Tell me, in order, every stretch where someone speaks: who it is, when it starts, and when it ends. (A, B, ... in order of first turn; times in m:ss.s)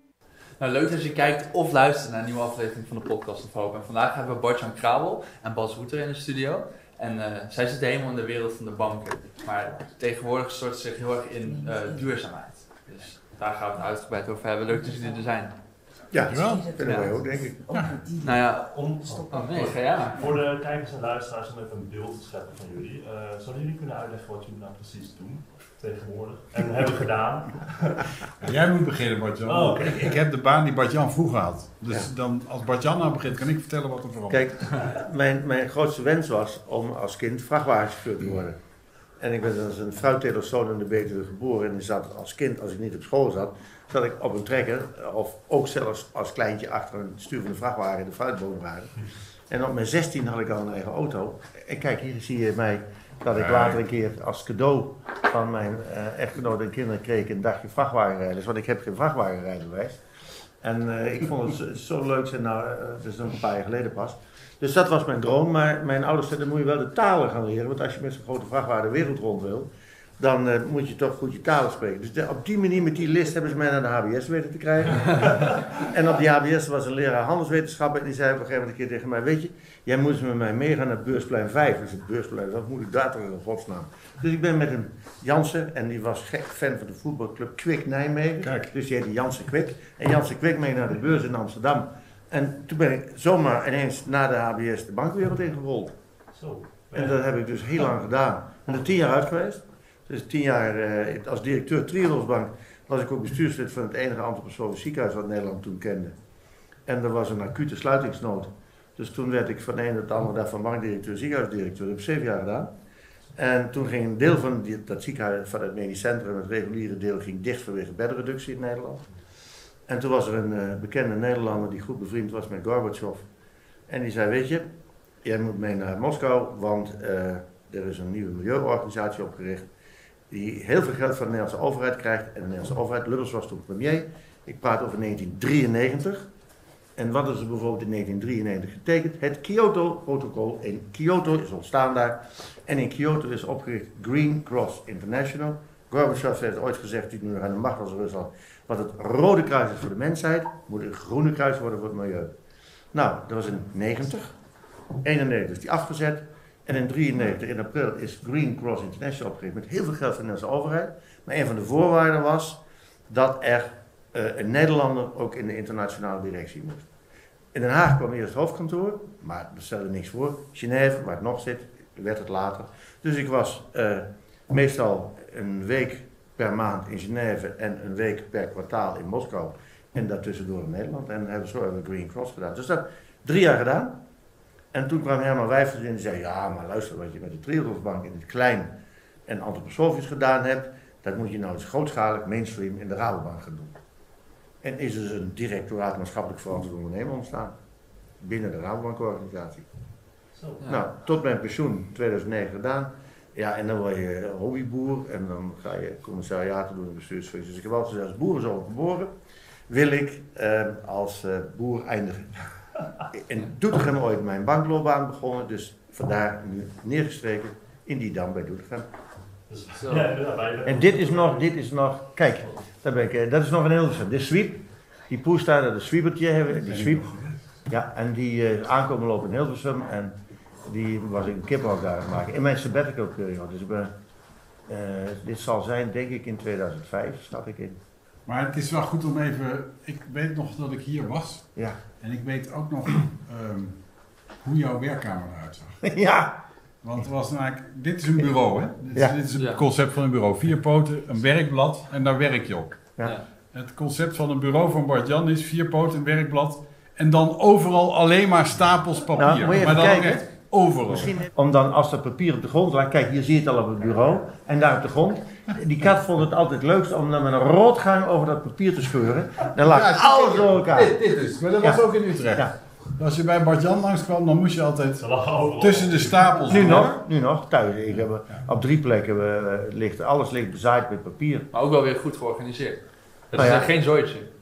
0:00.6-0:15.5 A
0:16.1-0:17.9 B
0:16.2-0:16.8 C
0:16.8-0:17.1 A
0:17.7-0:18.0 C
0:18.1-0:20.2 A
0:18.7-0:28.2 D
0:28.4-0:34.5 C
0:29.4-0:30.2 D
0:34.3-0:38.6 B
0:39.2-0:48.9 B
0:49.5-1:00.0 B
0:53.3-0:53.8 C
1:00.6-1:35.9 B
1:28.4-1:28.7 C
1:36.3-1:37.2 D
1:36.9-1:46.1 B
1:46.8-1:52.7 B
1:53.4-1:59.0 B
1:59.9-2:03.2 B
2:03.9-2:04.7 B
2:05.2-2:09.7 B
2:10.3-2:16.3 B
2:17.0-2:32.3 B
2:32.9-2:34.3 B
2:35.0-2:46.8 B
2:47.5-3:04.0 B
3:04.7-3:13.8 B
3:14.6-3:17.5 B
3:18.2-3:19.7 B
3:20.4-3:20.6 D
3:20.6-3:29.1 B
3:29.7-3:32.4 B
3:33.1-3:38.9 B
3:39.5-3:41.4 D
3:39.7-3:40.1 A
3:40.6-3:47.1 B
3:46.6-3:47.4 C
3:47.7-3:53.9 B
3:54.7-3:57.8 B
3:58.2-4:01.5 C
4:02.0-4:03.8 C
4:04.4-4:05.8 C
4:05.8-4:06.4 B
4:06.8-4:12.9 C
4:09.4-4:09.6 A
4:13.5-4:21.3 C
4:19.1-4:20.2 B
4:20.9-4:31.0 B
4:29.6-4:37.0 C
4:35.0-4:36.4 D
4:36.5-4:41.5 B
4:41.5-4:44.3 A
4:43.3-4:43.7 B